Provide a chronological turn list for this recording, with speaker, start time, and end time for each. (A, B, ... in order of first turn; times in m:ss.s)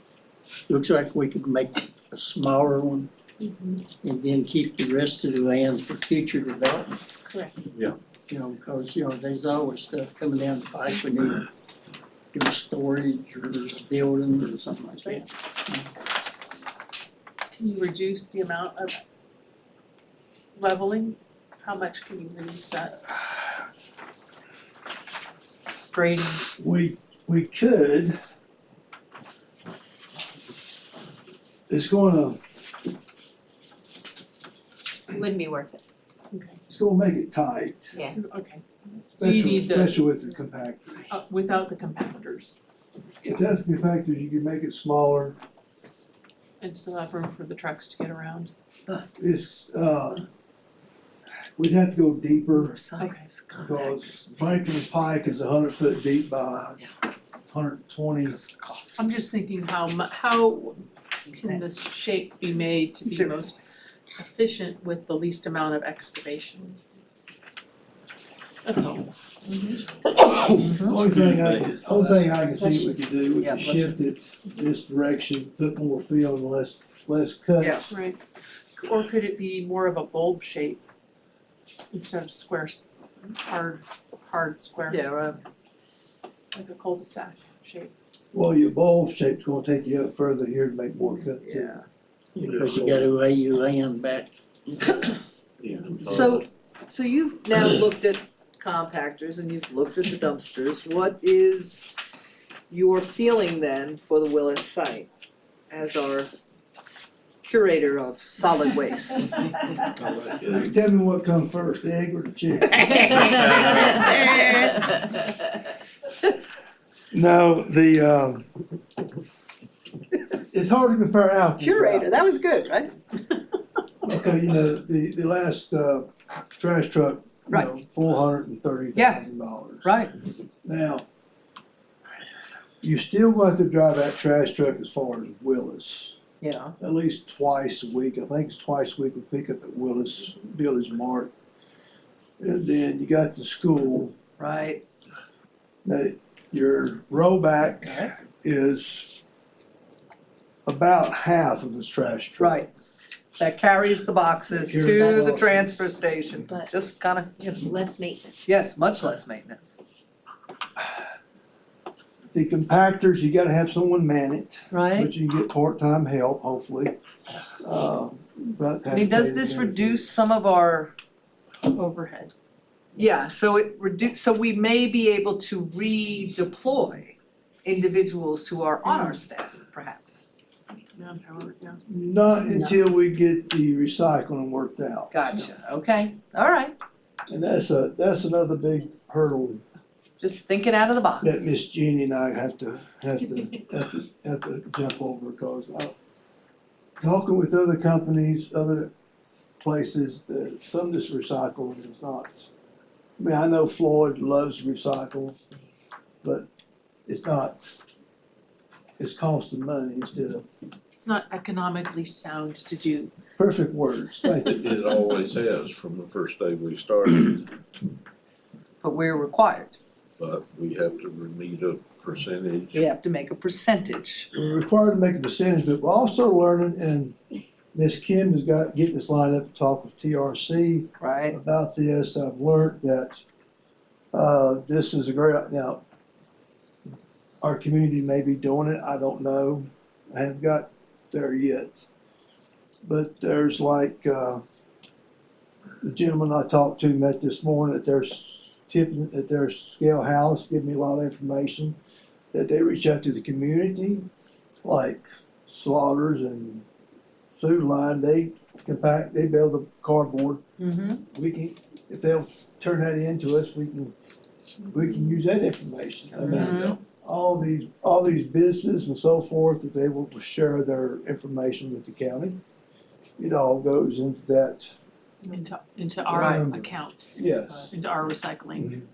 0:00.7-0:03.1 A
0:03.4-0:03.8 B
0:04.0-0:07.0 A
0:08.3-0:11.5 A
0:12.3-0:15.9 A
0:17.6-0:19.0 B
0:20.6-0:23.0 B
0:25.9-0:26.4 B
0:26.6-0:28.2 C
0:31.7-0:32.4 C
0:35.1-0:35.8 D
0:36.3-0:36.6 B
0:36.7-0:38.0 C
0:38.1-0:40.0 B
0:39.2-0:41.1 C
0:41.1-0:42.6 B
0:43.2-0:45.4 C
0:46.6-0:48.5 B
0:49.2-0:50.2 C
0:51.6-0:52.8 C
0:52.5-0:54.6 E
0:53.0-0:53.3 B
0:53.5-0:56.8 C
0:57.5-0:58.4 C
0:58.2-0:59.1 E
0:59.0-1:03.6 B
1:03.0-1:03.6 E
1:04.2-1:06.8 B
1:08.6-1:09.1 B
1:10.1-1:17.9 C
1:10.6-1:11.0 E
1:11.1-1:12.3 F
1:13.4-1:14.0 E
1:17.6-1:17.9 E
1:17.9-1:18.2 B
1:18.8-1:20.8 B
1:21.9-1:25.1 B
1:24.9-1:25.4 E
1:26.5-1:27.9 B
1:28.3-1:31.8 C
1:31.4-1:31.8 E
1:32.4-1:33.0 C
1:32.4-1:34.3 A
1:35.6-1:36.4 F
1:36.0-1:41.9 E
1:42.7-1:45.1 E
1:45.7-1:46.3 E
1:47.4-1:49.4 E
1:50.4-1:54.5 C
1:53.7-1:54.6 E
1:57.1-1:58.5 C
2:00.3-2:02.1 C
2:01.6-2:02.9 E
2:04.0-2:10.0 C
2:07.5-2:07.8 E
2:08.9-2:09.2 E
2:09.8-2:10.1 E
2:10.6-2:11.0 C
2:12.8-2:16.2 C
2:16.4-2:16.7 E
2:16.8-2:21.3 C
2:22.4-2:24.2 C
2:24.4-2:24.8 E
2:25.8-2:29.2 C
2:30.6-2:32.7 C
2:32.4-2:32.7 E
2:33.4-2:37.6 E
2:34.7-2:35.7 C
2:34.9-2:35.2 D
2:36.4-2:36.7 D
2:37.5-2:38.4 D
2:38.4-2:39.8 E
2:42.3-2:46.9 C
2:44.7-2:45.1 E
2:47.6-2:50.0 C
2:48.9-2:50.9 E
2:51.6-2:52.3 B
2:53.0-3:00.3 E
2:58.8-2:59.2 B
3:00.9-3:01.8 B
3:01.9-3:05.4 C
3:02.5-3:02.8 A
3:05.1-3:06.8 E
3:07.3-3:09.6 C
3:10.2-3:11.5 E
3:11.2-3:15.9 C
3:17.0-3:18.9 C
3:19.6-3:22.5 C
3:23.2-3:25.4 C
3:26.2-3:26.5 C
3:27.1-3:27.8 C
3:29.0-3:30.4 C
3:30.9-3:33.1 B
3:33.4-3:34.6 C
3:34.5-3:37.5 F
3:38.8-3:39.8 E
3:40.2-3:42.9 F
3:42.7-3:44.3 E
3:44.3-3:47.2 C
3:47.7-3:53.2 C
3:51.0-3:51.4 E
3:54.1-3:55.8 C
3:57.4-4:01.8 C
4:02.8-4:04.4 C
4:05.8-4:11.8 C
4:12.3-4:14.1 C
4:14.6-4:16.6 C
4:17.3-4:20.4 C
4:20.6-4:21.0 E
4:21.1-4:23.9 C
4:24.7-4:32.4 C
4:26.1-4:26.8 E
4:26.4-4:26.7 F
4:33.2-4:34.7 C
4:35.2-4:38.8 B
4:36.1-4:37.7 C
4:36.1-4:36.5 E
4:38.6-4:38.8 C